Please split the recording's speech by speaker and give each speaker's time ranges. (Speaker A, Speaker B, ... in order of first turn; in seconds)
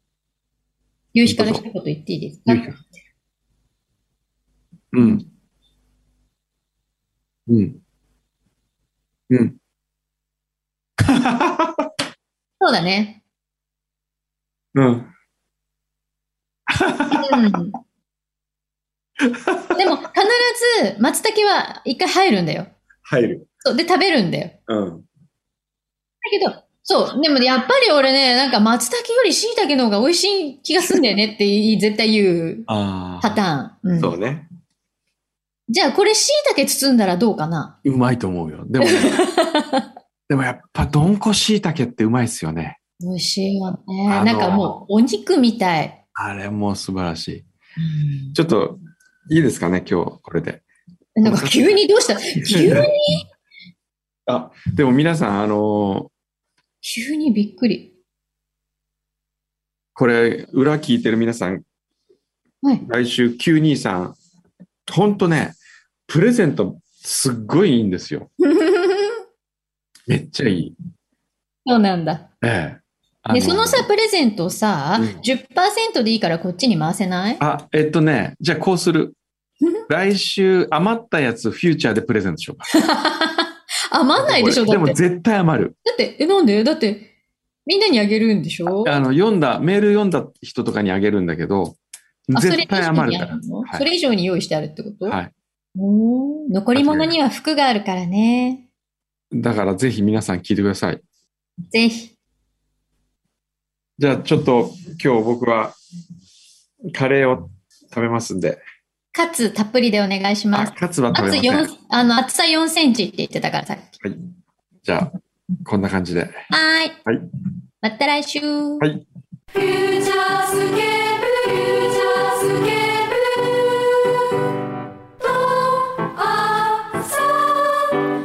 Speaker A: 1.1-2.8, 12.6-13.2, 17.1-17.8, 19.8-22.7, 23.6-24.6, 26.2-32.7, 33.2-34.1, 35.7-37.8, 38.8-39.9, 43.0-46.0, 51.2-53.2, 56.8-57.9, 68.4-69.2, 71.7-72.3, 73.3-77.4, 82.8-85.0, 85.8-87.1, 87.7-89.0, 92.3-95.2, 95.7-98.7, 101.7-102.1, 109.1-113.9, 116.5-117.0, 117.8-118.9, 119.5-123.8, 125.4-127.9
Speaker B: 1.3-1.6, 2.5-2.8, 4.9-5.2, 7.5-7.8, 9.3-9.6, 11.0-11.9, 14.7-15.1, 16.7-17.5, 19.2-19.8, 23.0-23.5, 24.7-25.1, 32.7-33.4, 34.0-34.5, 37.8-39.2, 40.3-42.8, 44.1-44.8, 46.1-47.5, 48.3-48.8, 49.3-50.6, 51.2-51.8, 52.4-52.9, 54.3-56.1, 59.9-61.6, 62.8-64.2, 64.9-68.3, 70.1-70.7, 72.4-73.9, 75.0-75.2, 77.4-79.2, 79.9-82.7, 84.2-85.8, 88.8-93.9, 95.0-95.3, 96.7-97.1, 99.3-101.0, 104.0-105.8, 106.9-108.6, 110.5-111.7, 114.8-115.1, 115.6-116.4